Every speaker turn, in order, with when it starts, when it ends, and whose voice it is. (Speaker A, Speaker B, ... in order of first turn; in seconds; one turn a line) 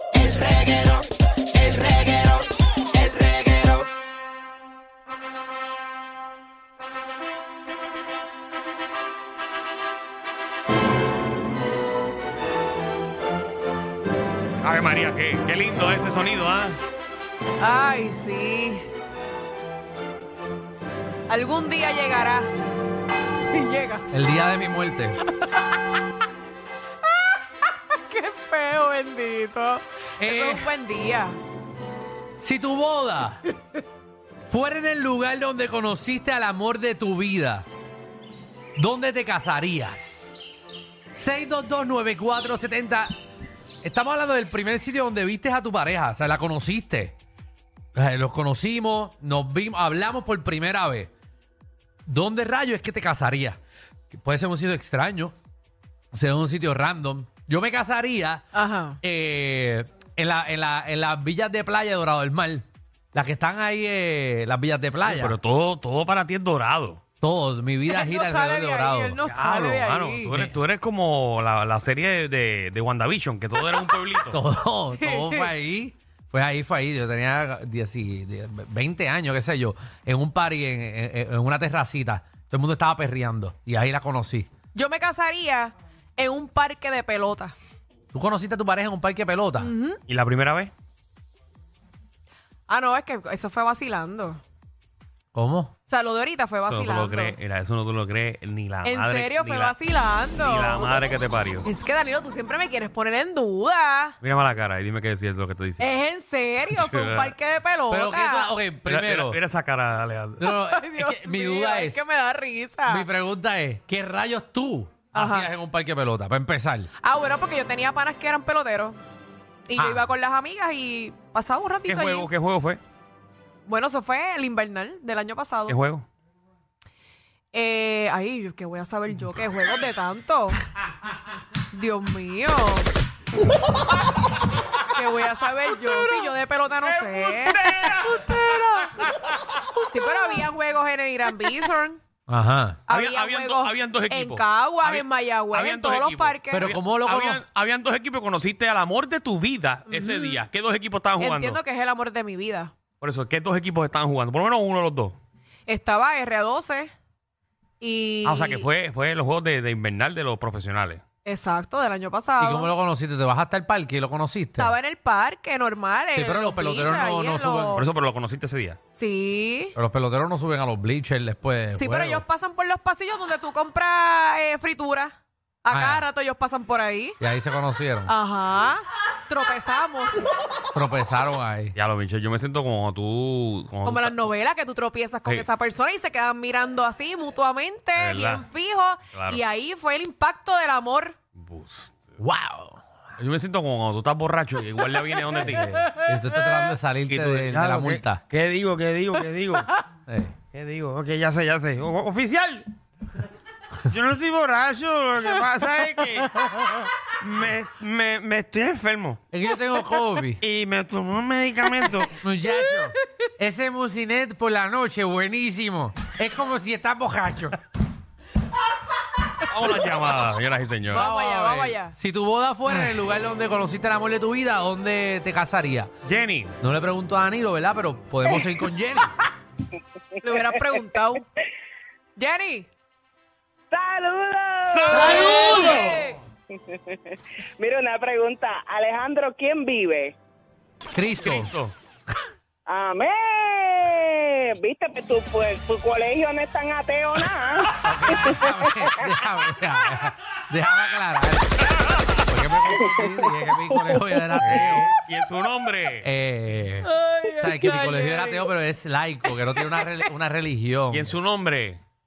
Speaker A: 0.1-0.9
Speaker B: 0.3-0.8
Speaker A: 1.6-2.2
Speaker B: 1.7-2.1
Speaker A: 3.0-3.7
Speaker C: 14.6-16.8
Speaker B: 17.6-18.9
Speaker B: 21.3-22.5
Speaker B: 23.3-24.0
Speaker D: 24.1-25.2
Speaker B: 27.0-31.4
Speaker D: 30.2-30.7
Speaker D: 32.4-33.4
Speaker D: 34.5-37.6
Speaker D: 38.8-40.3
Speaker D: 41.1-43.1
Speaker D: 43.8-47.1
Speaker D: 47.9-51.1
Speaker D: 52.0-53.6
Speaker D: 54.1-55.3
Speaker D: 56.1-58.5
Speaker B: 58.5-59.0
Speaker D: 59.0-65.4
Speaker C: 65.0-67.0
Speaker D: 67.2-69.2
Speaker B: 67.9-70.3
Speaker C: 69.2-74.4
Speaker D: 74.3-84.5
Speaker B: 75.0-75.5
Speaker B: 84.7-87.5
Speaker D: 88.1-89.7
Speaker B: 89.6-90.0
Speaker C: 90.1-90.7
Speaker B: 92.7-94.4
Speaker D: 95.3-95.7
Speaker B: 95.9-97.4
Speaker C: 96.7-99.8
Speaker B: 98.8-101.0
Speaker C: 100.3-101.7
Speaker B: 101.6-104.2
Speaker C: 104.2-105.9
Speaker B: 105.8-108.5
Speaker C: 106.7-107.3
Speaker D: 107.9-109.4
Speaker C: 108.8-110.5
Speaker D: 110.4-112.0
Speaker B: 110.7-113.0
Speaker D: 112.8-116.9
Speaker B: 117.0-119.0
Speaker B: 119.7-122.3
Speaker D: 119.8-120.1
Speaker C: 121.8-122.8
Speaker B: 123.7-125.8
Speaker C: 125.7-126.0
Speaker B: 127.5-130.6
Speaker B: 131.7-132.9
Speaker B: 134.9-137.6
Speaker C: 136.1-138.3
Speaker B: 138.1-138.9
Speaker C: 139.0-139.3
Speaker B: 139.9-142.0
Speaker D: 142.3-142.8
Speaker C: 142.9-151.6
Speaker B: 142.9-146.6
Speaker D: 146.5-147.4
Speaker B: 149.9-150.4
Speaker B: 151.2-152.7
Speaker C: 153.0-155.2
Speaker B: 155.7-156.9
Speaker B: 157.8-158.7
Speaker C: 158.2-161.0
Speaker B: 161.2-162.7
Speaker D: 162.4-164.8
Speaker B: 164.6-167.8
Speaker D: 166.1-167.8
Speaker C: 167.7-168.8
Speaker B: 168.9-169.8
Speaker D: 169.8-172.2
Speaker B: 171.8-177.2
Speaker D: 175.7-176.1
Speaker D: 177.2-178.1
Speaker B: 178.1-180.3
Speaker D: 180.7-181.7
Speaker C: 181.7-184.2
Speaker B: 183.8-191.2
Speaker C: 187.9-188.4
Speaker C: 189.1-189.4
Speaker C: 191.4-192.1
Speaker D: 192.2-192.8
Speaker C: 193.2-195.7
Speaker D: 195.4-198.2
Speaker B: 195.9-196.7
Speaker C: 197.1-199.7
Speaker D: 200.1-200.3
Speaker C: 200.5-202.7
Speaker C: 203.9-209.2
Speaker D: 209.3-210.4
Speaker C: 210.4-212.2
Speaker D: 212.2-217.6
Speaker C: 219.5-221.1
Speaker B: 220.9-221.9
Speaker D: 220.9-225.9
Speaker C: 226.0-226.6
Speaker D: 226.6-229.2
Speaker B: 230.2-231.2
Speaker B: 232.2-232.7
Speaker E: 233.7-235.8
Speaker C: 234.6-236.0
Speaker E: 236.7-240.1
Speaker D: 240.9-241.5
Speaker C: 241.2-241.7
Speaker E: 242.7-247.7
Speaker D: 247.7-251.5
Speaker D: 252.3-254.9
Speaker C: 254.4-256.1
Speaker D: 256.0-261.1
Speaker B: 256.8-258.5
Speaker C: 260.9-261.8